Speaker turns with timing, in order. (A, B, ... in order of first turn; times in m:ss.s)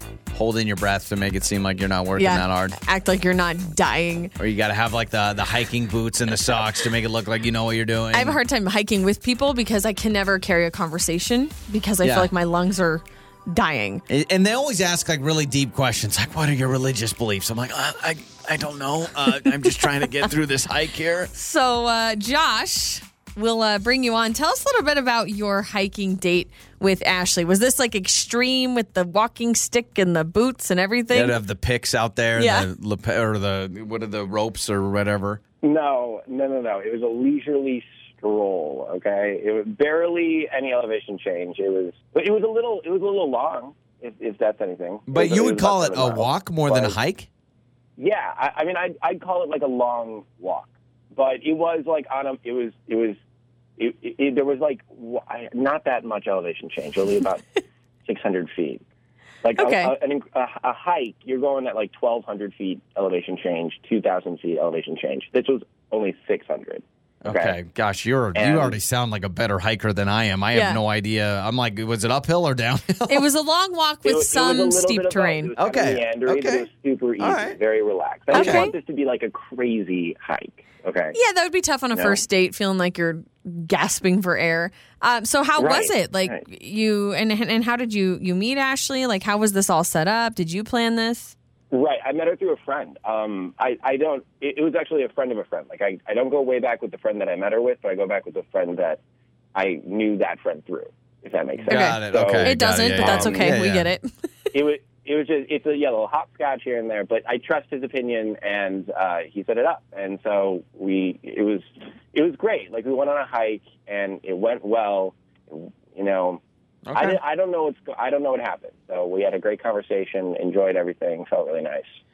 0:00.3-0:02.8 A
0:02.2-0:04.3 B
0:04.4-0:08.4 A
0:08.1-0:14.0 B
0:12.0-0:12.3 A
0:14.1-0:21.3 A
0:21.3-0:31.4 B
0:31.1-0:35.4 A
0:32.4-0:32.7 B
0:35.6-0:46.9 C
0:45.1-0:47.3 A
0:48.0-0:53.2 C
0:53.8-0:57.4 C
0:58.0-0:58.8 C
0:59.4-1:07.5 C
0:59.6-0:59.9 B
1:07.2-1:13.2 A
1:08.4-1:08.8 C
1:10.5-1:10.8 B
1:13.1-1:15.5 B
1:14.0-1:21.2 C
1:15.6-1:16.7 A
1:17.2-1:17.6 A
1:18.3-1:18.7 A
1:18.3-1:18.8 B
1:21.1-1:31.3 B
1:21.9-1:22.2 C
1:25.6-1:26.4 C
1:31.7-1:39.0 C
1:39.5-1:43.6 C
1:41.6-1:43.9 A
1:41.7-1:44.1 B
1:44.5-1:56.4 C
1:56.8-1:57.2 A
1:56.9-2:01.9 C